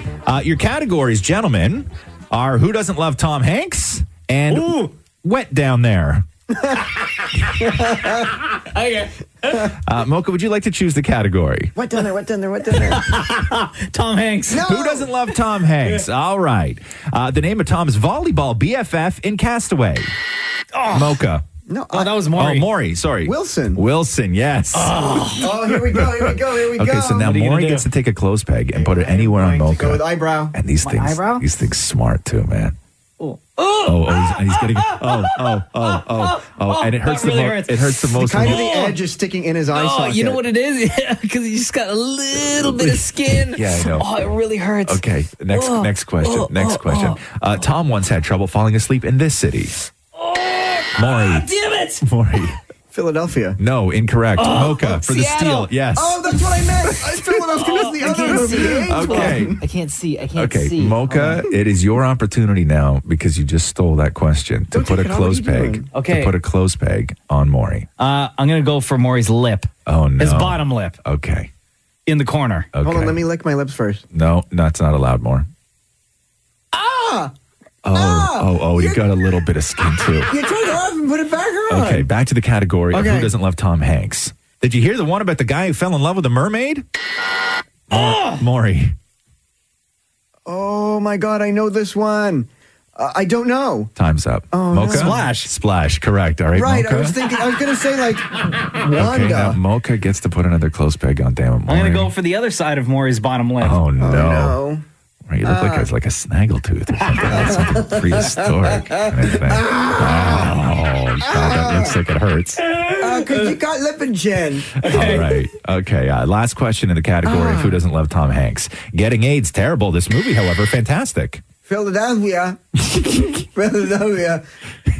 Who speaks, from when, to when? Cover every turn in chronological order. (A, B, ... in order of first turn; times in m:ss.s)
0:00.2-0:06.2 A
0:04.5-0:04.9 B
0:06.5-0:06.9 C
0:07.6-0:08.4 C
0:08.5-0:09.7 B
0:09.8-0:11.7 A
0:11.7-0:13.2 C
0:12.8-0:14.7 B
0:14.5-0:15.1 C
0:14.6-0:20.1 A
0:20.7-0:21.2 B
0:20.9-0:21.4 A
0:21.7-0:22.3 C
0:21.9-0:22.7 B
0:22.3-0:32.8 A
0:23.2-0:23.8 C
0:24.7-0:25.5 B
0:25.3-0:27.3 C
0:27.2-0:27.8 B
0:28.7-0:30.6 C
0:30.8-0:31.4 B
0:33.2-0:39.0 B
0:33.8-0:38.7 A
0:38.1-0:40.4 C
0:39.7-0:47.2 B
0:43.5-0:44.1 A
0:44.8-0:49.8 A
0:50.2-0:52.0 B
0:51.0-0:51.5 A
0:52.0-0:52.6 A
0:52.9-0:53.6 C
0:53.6-0:57.5 A
0:54.4-0:55.7 B
0:55.9-0:59.6 C
0:57.6-1:01.4 B
0:58.4-0:59.6 A
1:00.4-1:07.9 A
1:04.7-1:05.9 C
1:05.9-1:06.3 B
1:08.0-1:11.0 B
1:09.8-1:11.5 A
1:12.0-1:12.7 B
1:12.7-1:13.2 A
1:12.8-1:14.0 C
1:14.1-1:15.5 A
1:16.7-1:17.3 C
1:17.8-1:20.3 A
1:17.9-1:19.2 C
1:20.2-1:22.1 C
1:21.7-1:26.8 A
1:22.9-1:23.3 C
1:27.9-1:28.9 A
1:27.9-1:28.4 B
1:30.4-1:33.9 C
1:34.0-1:37.2 A
1:34.5-1:35.2 C
1:34.9-1:35.5 B
1:36.5-1:39.6 C
1:38.9-1:42.1 A
1:41.7-1:43.8 B
1:43.6-1:44.6 A
1:44.0-1:44.8 C
1:45.3-1:52.6 A
1:45.4-1:45.9 C
1:47.2-1:50.5 C
1:51.2-1:52.0 C
1:52.6-1:53.5 B
1:53.0-1:54.8 C
1:54.8-1:55.5 B
1:54.8-2:01.4 A
1:57.2-1:57.8 C
2:01.6-2:04.4 C
2:02.9-2:03.4 A